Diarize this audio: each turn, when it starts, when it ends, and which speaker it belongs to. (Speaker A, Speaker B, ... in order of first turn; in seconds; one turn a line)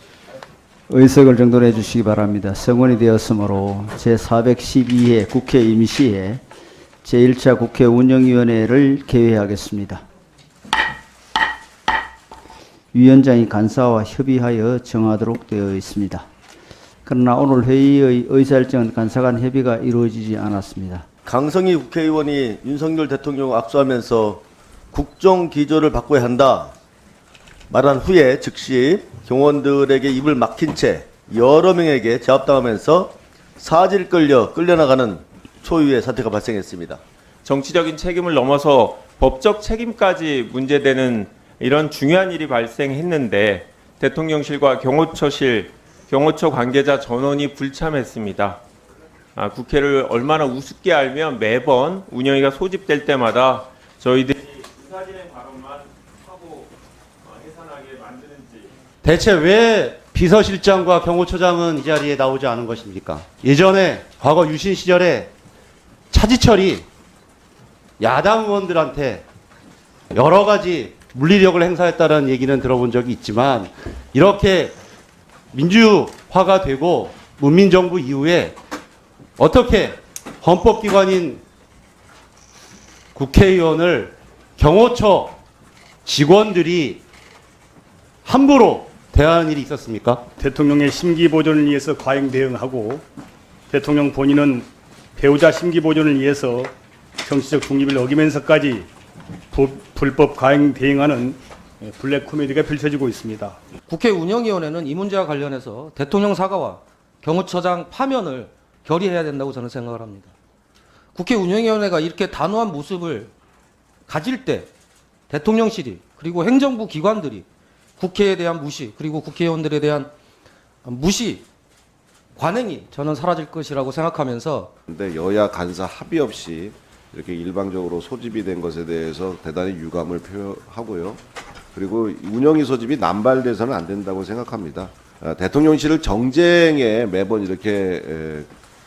Speaker A: 0.9-6.4
Speaker A: 7.0-10.0
Speaker A: 12.9-16.2
Speaker A: 17.0-21.1
Speaker B: 21.2-26.7
Speaker B: 27.7-37.0
Speaker C: 37.4-48.6
Speaker C: 49.4-56.7
Speaker C: 57.2-58.7
Speaker D: 59.0-65.3
Speaker D: 66.1-66.8
Speaker D: 68.0-69.2
Speaker D: 70.1-74.7
Speaker D: 75.5-78.5
Speaker D: 79.4-81.4
Speaker D: 83.1-85.3
Speaker D: 86.0-87.0
Speaker D: 88.2-90.3
Speaker E: 90.4-93.0
Speaker E: 93.7-96.7
Speaker E: 97.2-98.9
Speaker E: 99.5-103.6
Speaker F: 103.9-110.3
Speaker F: 111.1-113.3
Speaker F: 114.1-114.7
Speaker F: 115.3-117.5
Speaker F: 118.0-120.1
Speaker F: 120.8-121.5
Speaker F: 122.3-124.7
Speaker G: 124.9-131.2
Speaker G: 131.7-138.5